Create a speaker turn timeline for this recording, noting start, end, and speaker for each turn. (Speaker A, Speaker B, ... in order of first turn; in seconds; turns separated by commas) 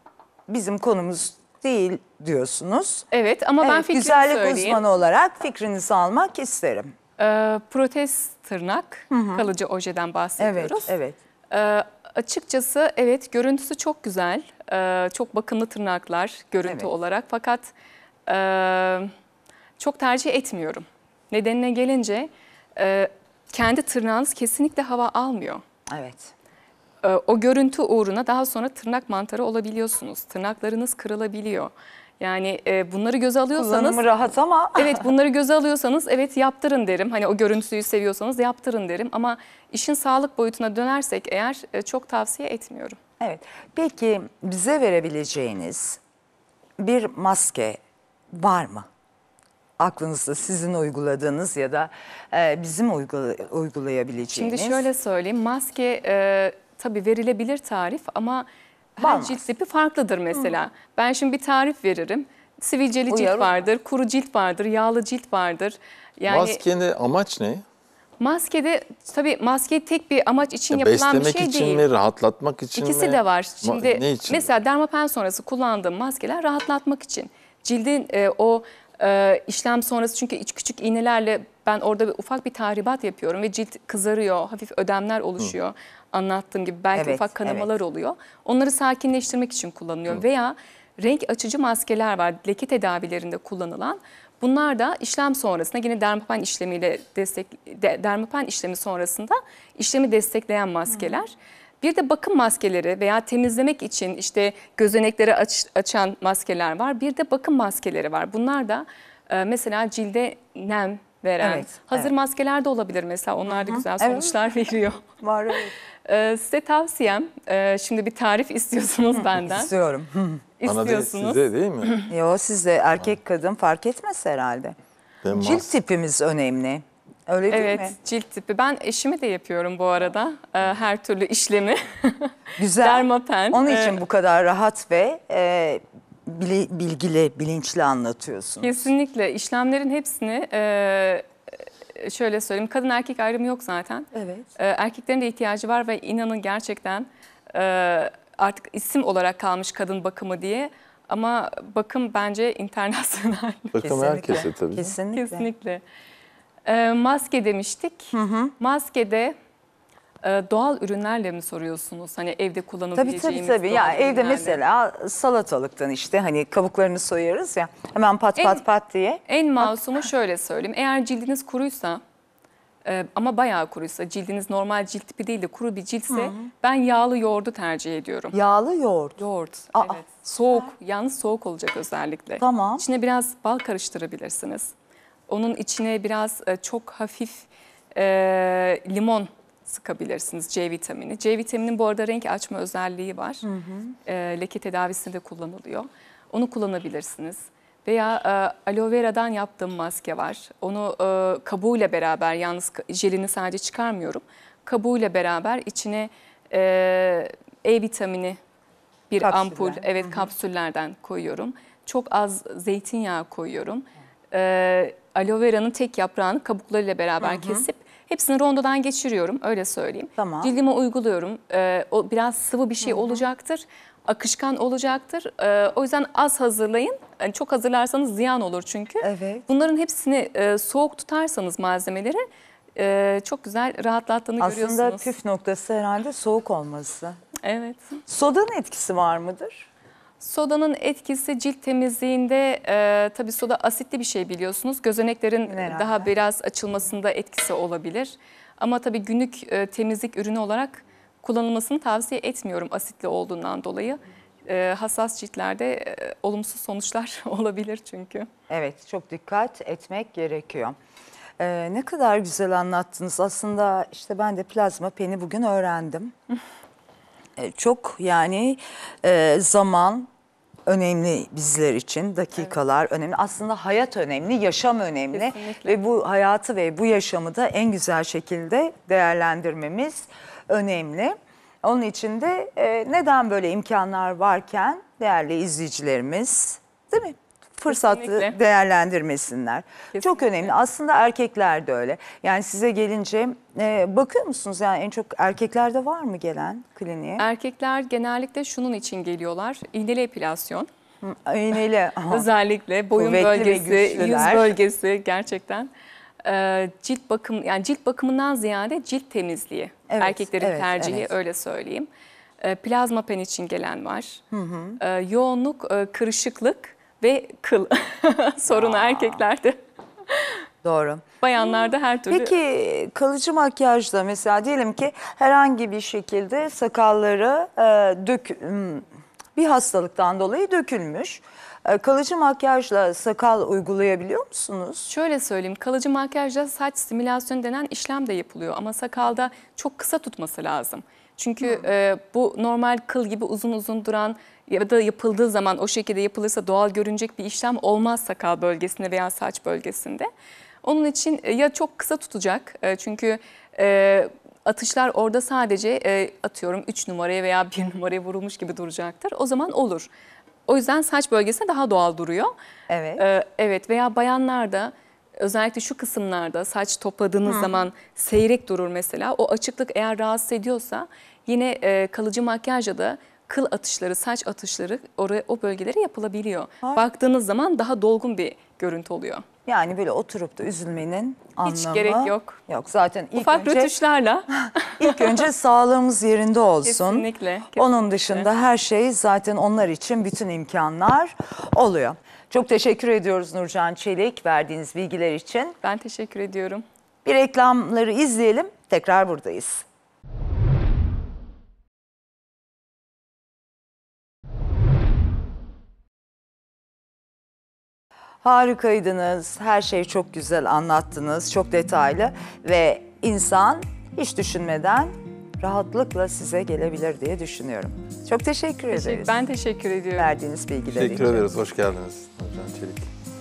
Speaker A: 0.5-3.1, Speaker B: 3.1-4.8, Speaker A: 3.6-6.9, Speaker B: 7.2-10.9, Speaker A: 9.1-9.5, Speaker A: 10.4-11.2, Speaker B: 11.5-17.7, Speaker B: 18.3-19.1, Speaker B: 19.8-25.6, Speaker A: 25.9-26.3, Speaker B: 27.0-34.0, Speaker A: 33.5-35.0, Speaker B: 34.7-43.0, Speaker A: 43.2-46.0, Speaker A: 46.8-47.8, Speaker A: 48.3-48.9, Speaker A: 49.8-54.9, Speaker B: 54.3-66.6, Speaker A: 59.0-59.5, Speaker A: 63.1-63.7, Speaker C: 66.3-67.6, Speaker B: 68.2-71.8, Speaker C: 70.7-74.5, Speaker B: 72.7-115.1, Speaker A: 87.0-87.7, Speaker A: 111.4-112.1, Speaker A: 113.5-114.4, Speaker A: 115.2-115.7, Speaker B: 116.1-119.7, Speaker A: 119.1-120.5, Speaker B: 120.6-122.0, Speaker C: 120.6-122.0, Speaker A: 122.1-124.8, Speaker C: 125.2-125.7, Speaker A: 125.3-128.0, Speaker B: 127.5-134.0, Speaker A: 132.6-138.9, Speaker B: 138.6-141.3, Speaker B: 141.9-153.8, Speaker A: 144.1-144.5, Speaker C: 153.7-154.9, Speaker A: 153.8-155.5, Speaker B: 155.1-155.8, Speaker B: 156.7-159.3, Speaker A: 158.1-158.5, Speaker B: 160.2-164.6, Speaker A: 162.9-169.7, Speaker B: 168.4-168.6, Speaker B: 169.3-172.0, Speaker B: 172.8-178.3, Speaker A: 176.1-176.5, Speaker A: 178.3-179.2, Speaker B: 179.2-184.7, Speaker A: 179.7-180.7, Speaker A: 182.4-182.8, Speaker B: 185.3-193.4, Speaker A: 193.4-193.9, Speaker B: 194.1-208.4, Speaker B: 209.1-235.1, Speaker A: 209.2-210.3, Speaker A: 217.2-217.7, Speaker A: 220.2-220.5, Speaker A: 222.8-223.2, Speaker A: 229.0-229.4, Speaker A: 234.4-237.2, Speaker B: 237.4-238.0, Speaker A: 238.1-239.7, Speaker B: 240.2-258.3, Speaker A: 245.5-246.1, Speaker A: 258.5-260.8, Speaker A: 261.4-266.1, Speaker A: 267.4-270.1, Speaker A: 270.7-297.2, Speaker B: 275.1-275.8, Speaker B: 287.7-288.4, Speaker B: 289.9-290.5, Speaker B: 297.2-300.7, Speaker A: 301.0-302.3, Speaker B: 302.1-305.7, Speaker A: 302.9-304.6, Speaker B: 306.2-311.9, Speaker A: 309.9-311.1, Speaker B: 312.4-314.2, Speaker A: 314.3-314.8, Speaker B: 314.8-319.6, Speaker A: 318.5-319.2, Speaker B: 320.1-320.4, Speaker A: 320.6-334.9, Speaker B: 321.2-322.4, Speaker B: 334.9-350.1, Speaker A: 341.4-341.7, Speaker B: 350.6-359.9, Speaker B: 360.5-362.3, Speaker A: 362.7-363.0, Speaker B: 363.0-379.2, Speaker A: 367.3-367.5, Speaker A: 379.4-383.7, Speaker B: 381.4-382.4, Speaker B: 383.2-385.2, Speaker A: 384.3-395.6, Speaker B: 386.6-388.3, Speaker B: 395.6-396.6, Speaker A: 397.1-399.6, Speaker A: 408.2-419.1, Speaker B: 418.7-420.1, Speaker A: 420.0-421.2, Speaker C: 420.6-422.9